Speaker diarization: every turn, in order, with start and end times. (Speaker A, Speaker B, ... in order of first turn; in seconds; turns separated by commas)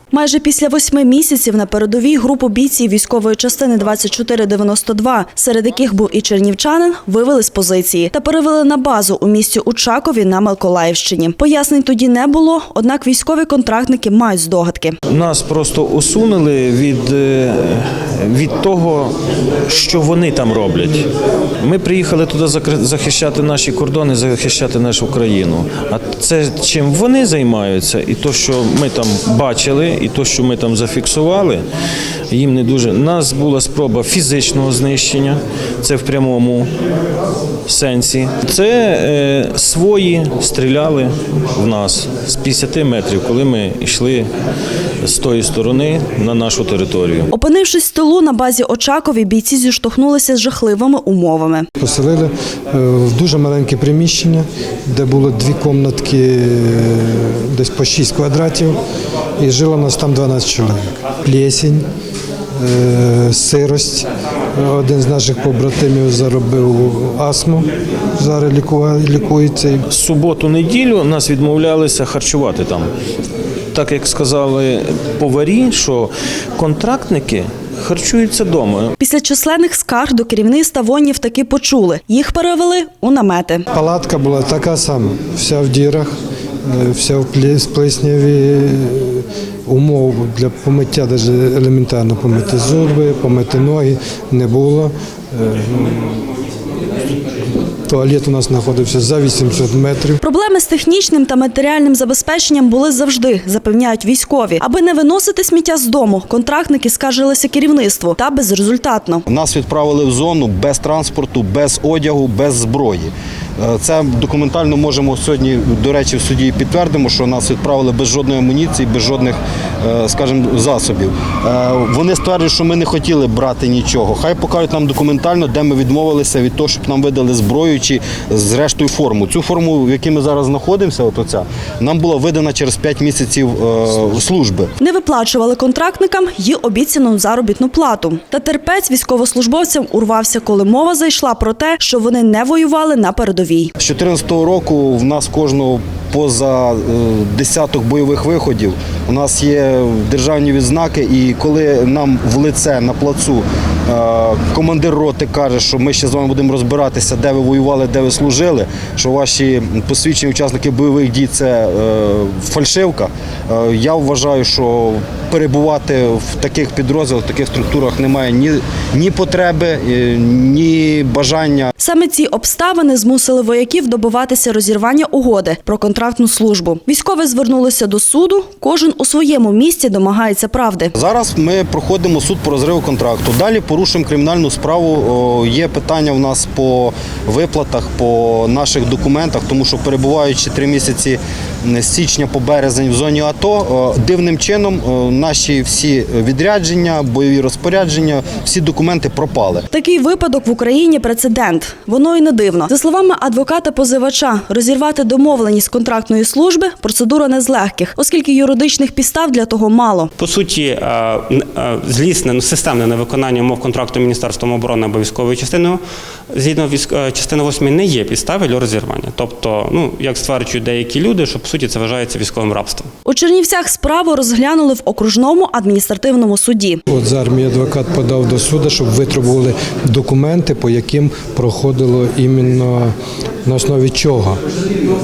Speaker A: 0.1-15.0, Speaker B: 15.1-21.1, Speaker B: 21.6-31.6, Speaker B: 32.3-36.7, Speaker B: 37.7-44.3, Speaker B: 45.0-47.3, Speaker A: 47.3-51.7, Speaker C: 51.8-58.8, Speaker C: 59.4-61.8, Speaker C: 62.6-69.8, Speaker B: 69.9-72.9, Speaker B: 73.7-78.9, Speaker A: 79.0-83.7, Speaker C: 83.7-86.1, Speaker C: 86.6-96.3, Speaker C: 97.9-100.2, Speaker A: 100.2-109.2, Speaker D: 109.3-134.7, Speaker A: 134.8-143.7, Speaker D: 143.8-171.7, Speaker A: 171.8-180.9, Speaker D: 180.9-199.7, Speaker A: 199.7-210.1, Speaker E: 210.2-215.8, Speaker E: 216.3-222.9, Speaker A: 223.1-226.8, Speaker C: 226.9-232.9, Speaker C: 233.4-234.4